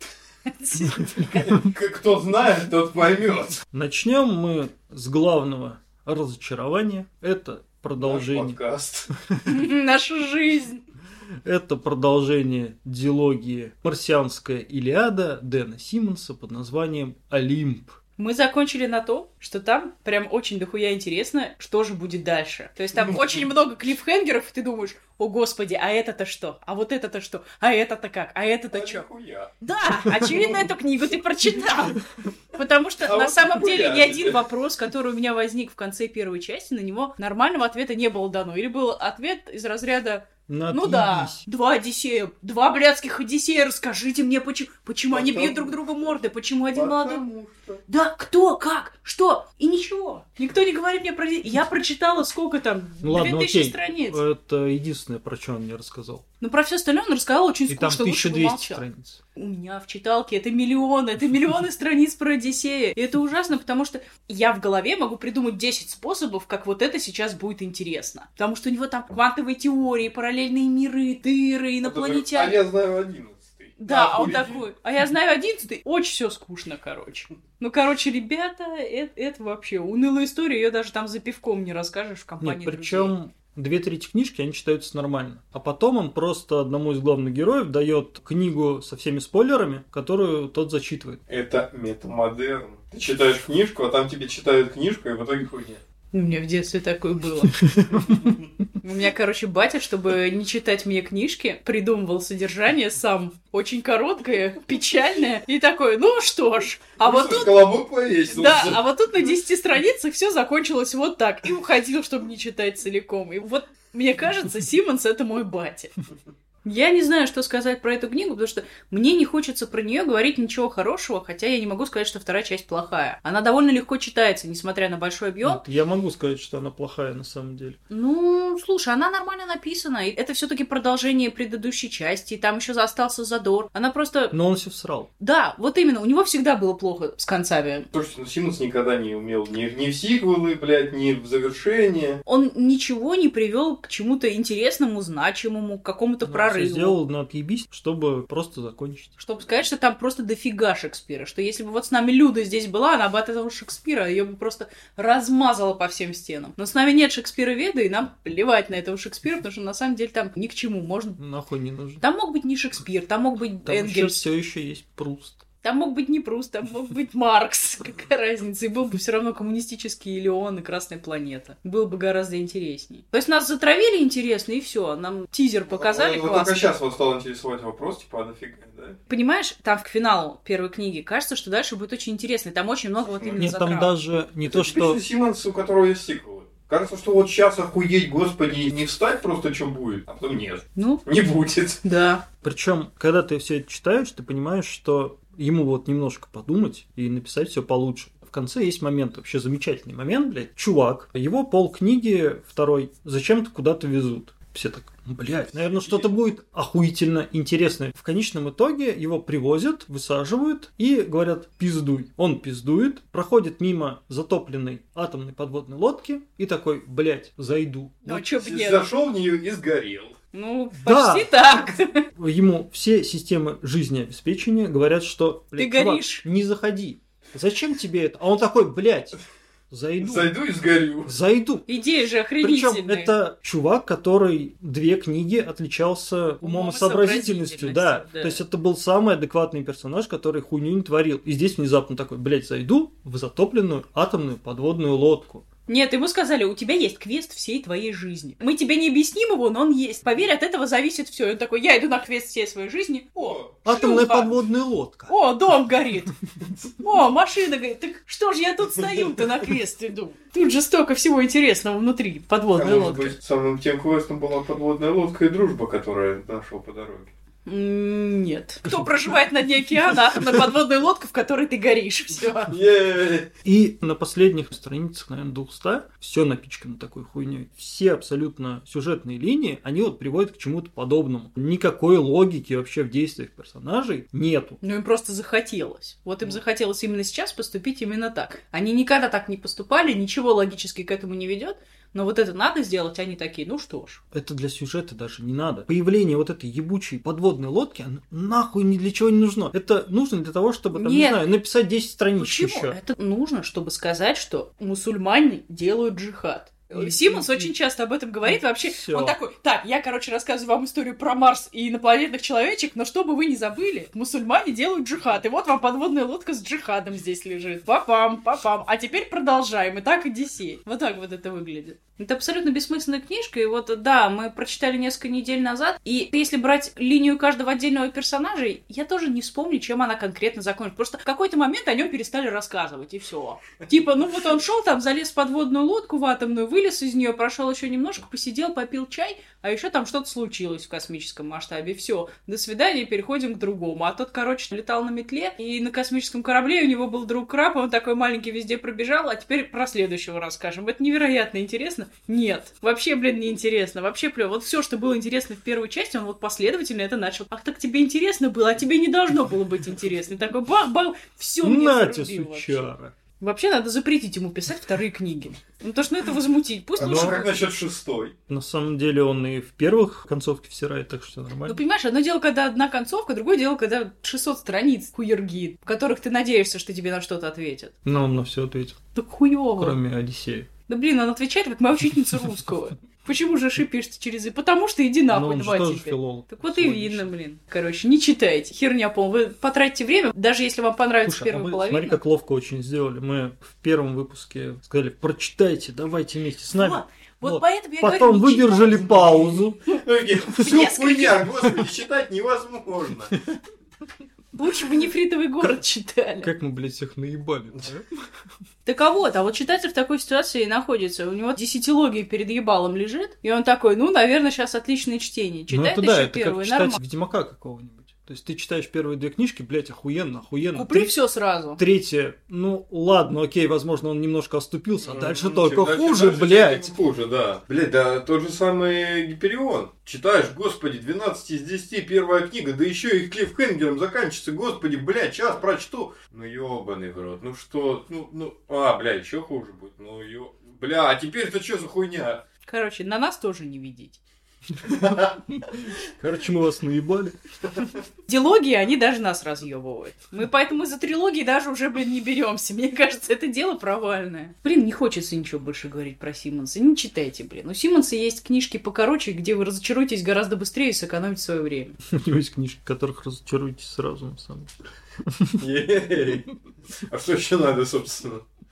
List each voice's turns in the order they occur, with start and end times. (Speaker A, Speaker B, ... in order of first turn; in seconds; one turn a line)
Speaker A: 0.5-1.5
Speaker B: 0.9-1.2
Speaker C: 1.1-3.6
Speaker B: 3.7-8.6
Speaker C: 8.0-9.1
Speaker B: 9.1-9.5
Speaker A: 9.4-10.8
Speaker B: 11.4-18.0
Speaker A: 18.2-29.0
Speaker C: 22.9-23.4
Speaker C: 28.7-29.5
Speaker A: 29.6-47.2
Speaker C: 30.2-30.6
Speaker C: 33.0-34.4
Speaker B: 40.5-41.4
Speaker C: 45.1-46.2
Speaker C: 46.7-47.8
Speaker A: 47.9-54.2
Speaker B: 53.0-56.2
Speaker A: 56.4-58.8
Speaker B: 57.7-59.2
Speaker A: 59.4-72.6
Speaker C: 71.8-74.6
Speaker A: 73.8-83.1
Speaker B: 82.4-91.2
Speaker C: 91.3-95.8
Speaker A: 96.1-97.6
Speaker B: 97.6-98.2
Speaker A: 98.8-107.7
Speaker C: 107.0-108.8
Speaker A: 108.3-115.9
Speaker A: 116.6-125.6
Speaker B: 125.4-127.8
Speaker A: 127.9-134.3
Speaker B: 134.3-135.1
Speaker A: 135.2-137.9
Speaker C: 137.9-142.2
Speaker A: 142.2-147.0
Speaker B: 146.2-149.1
Speaker A: 149.2-161.2
Speaker B: 161.2-162.0
Speaker A: 162.0-164.2
Speaker B: 163.7-165.4
Speaker A: 165.6-176.6
Speaker C: 175.7-179.0
Speaker A: 179.1-183.9
Speaker C: 183.2-183.5
Speaker B: 183.4-185.0
Speaker C: 184.4-191.8
Speaker A: 190.8-191.0
Speaker A: 191.8-192.2
Speaker B: 192.4-218.1
Speaker C: 205.8-206.1
Speaker A: 218.0-218.8
Speaker C: 218.1-220.2
Speaker A: 220.3-222.1
Speaker B: 220.8-221.3
Speaker B: 222.2-229.2
Speaker A: 225.6-226.2
Speaker B: 229.7-230.3
Speaker C: 230.0-231.1
Speaker B: 231.1-231.7
Speaker A: 231.7-233.1
Speaker B: 232.4-245.5
Speaker A: 236.4-238.4
Speaker A: 245.7-254.4
Speaker C: 253.2-253.5
Speaker B: 253.6-255.1
Speaker A: 255.1-256.1
Speaker A: 256.8-263.1
Speaker C: 262.6-267.1
Speaker A: 267.4-272.6
Speaker C: 272.5-273.3
Speaker B: 273.4-284.6
Speaker A: 284.6-294.0
Speaker B: 294.1-302.8
Speaker A: 300.7-301.2
Speaker A: 302.2-362.7
Speaker B: 306.7-307.5
Speaker B: 308.3-309.2
Speaker B: 361.4-362.9
Speaker A: 363.2-367.3
Speaker C: 366.8-368.1
Speaker B: 366.8-367.2
Speaker B: 368.3-371.6
Speaker A: 371.4-377.7
Speaker B: 377.8-378.8
Speaker A: 378.9-379.8
Speaker B: 379.6-380.5
Speaker A: 380.7-392.0
Speaker B: 385.1-387.1
Speaker B: 391.0-399.6
Speaker A: 396.6-401.5
Speaker C: 399.7-403.2
Speaker A: 404.3-406.3
Speaker B: 406.2-407.9
Speaker A: 408.6-416.8
Speaker B: 415.5-421.0
Speaker A: 420.5-421.6
Speaker B: 421.6-426.7
Speaker C: 424.8-442.2
Speaker A: 442.4-444.0
Speaker B: 444.6-447.2
Speaker C: 444.6-445.1
Speaker A: 448.1-461.8
Speaker B: 461.9-464.5
Speaker B: 465.0-465.4
Speaker C: 465.4-468.2